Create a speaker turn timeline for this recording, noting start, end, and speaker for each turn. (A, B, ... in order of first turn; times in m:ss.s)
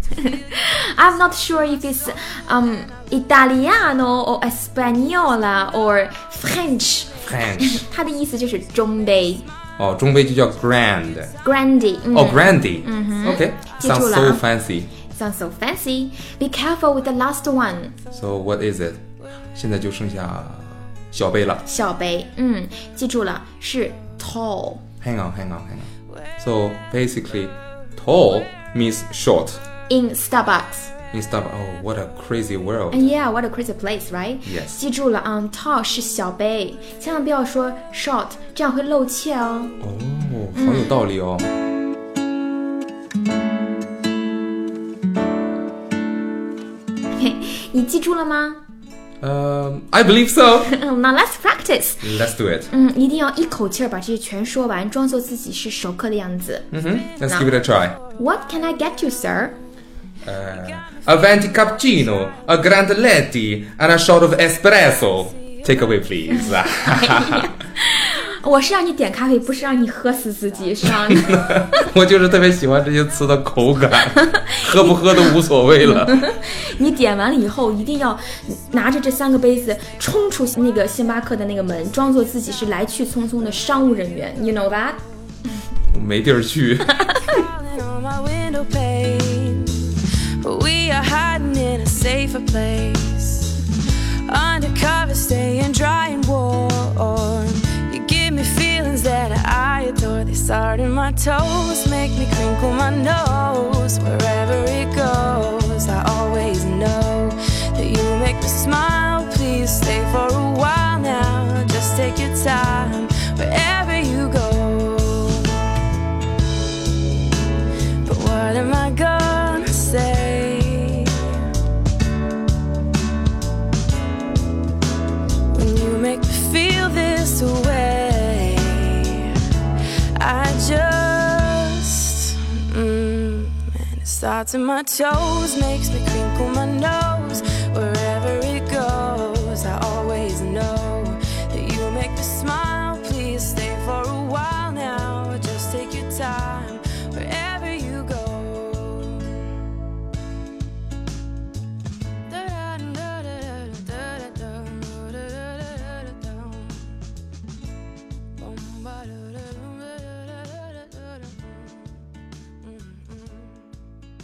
0:00.2-0:09.5 A
0:07.2-0:07.8 B
0:09.8-0:11.3 B
0:11.4-0:14.4 A
0:12.1-0:14.9 B
0:15.0-0:17.9 A
0:18.1-0:19.0 B
0:19.5-0:21.6 B
0:21.6-0:24.8 A
0:25.0-0:25.9 B
0:26.4-0:29.6 B
0:29.9-0:30.9 A
0:31.1-0:33.0 B
0:32.9-0:39.8 A
0:34.4-0:34.8 B
0:39.8-0:41.5 B
0:40.5-0:40.9 A
0:47.1-0:48.6 A
0:49.2-0:50.7 B
0:50.6-0:52.1 A
0:52.0-0:52.7 B
0:52.7-0:56.7 A
0:56.7-0:58.0 B
0:57.3-0:57.5 A
0:58.2-0:59.6 A
1:00.2-1:07.5 B
1:00.7-1:01.6 C
1:06.9-1:11.8 A
1:10.9-1:16.2 B
1:14.1-1:25.0 A
1:25.9-1:27.0 B
1:27.0-1:27.4 A
1:27.3-1:55.7 C
1:58.0-2:01.5 C
2:05.5-2:09.5 C
2:10.2-2:29.5 C
2:32.3-2:37.0 C
2:38.4-2:41.9 C
2:42.6-2:43.7 C